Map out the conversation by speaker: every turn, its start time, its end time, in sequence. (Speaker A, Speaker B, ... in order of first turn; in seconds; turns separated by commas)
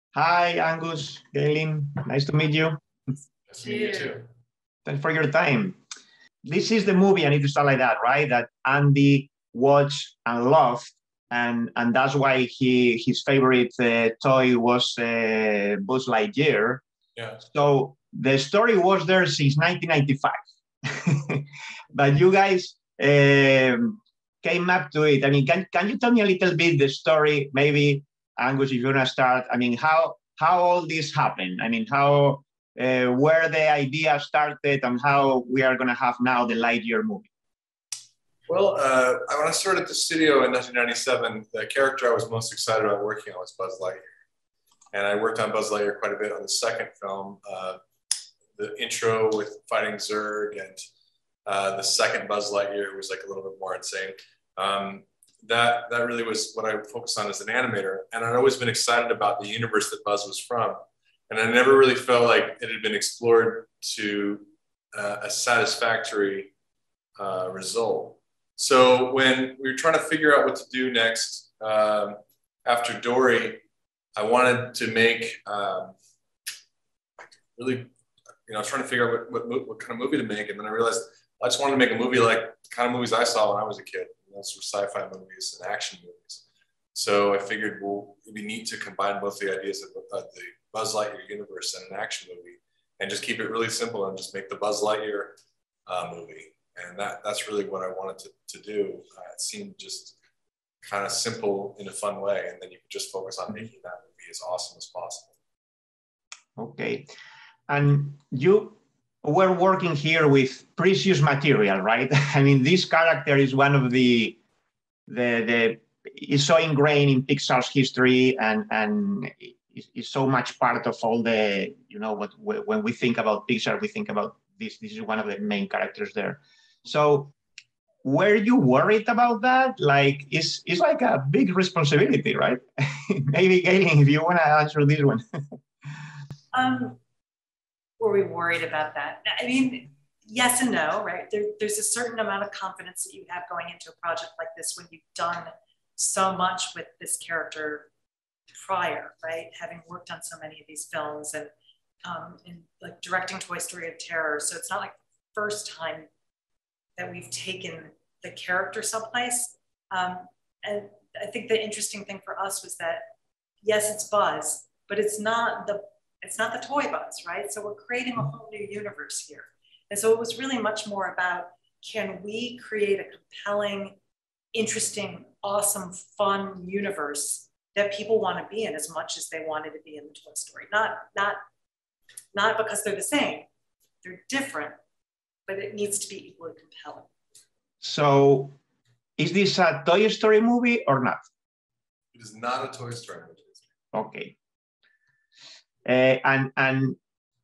Speaker A: 0.1-2.8, Speaker B: 3.5-4.2, Speaker C: 3.8-4.1, Speaker A: 4.8-5.8, Speaker A: 6.4-16.8, Speaker B: 17.2-17.4, Speaker A: 17.5-37.3, Speaker B: 38.5-44.0, Speaker B: 44.9-47.8, Speaker B: 48.5-50.8, Speaker B: 51.5-66.5, Speaker B: 67.2-73.6, Speaker B: 74.2-76.0, Speaker B: 77.2-77.9, Speaker B: 78.5-86.4, Speaker B: 87.0-100.2, Speaker B: 100.8-105.3, Speaker A: 106.6-107.1, Speaker A: 107.7-114.4, Speaker A: 115.1-127.3, Speaker A: 128.0-135.4, Speaker C: 136.5-137.0, Speaker C: 138.0-147.9, Speaker C: 148.5-151.5, Speaker C: 152.0-156.1, Speaker C: 157.0-163.1, Speaker C: 163.6-174.0, Speaker C: 174.5-181.4, Speaker C: 182.3-183.5, Speaker C: 184.0-184.8, Speaker C: 185.5-187.1, Speaker A: 187.8-188.6, Speaker A: 189.2-191.2, Speaker B: 192.1-193.7, Speaker A: 193.9-194.3, Speaker A: 195.8-197.0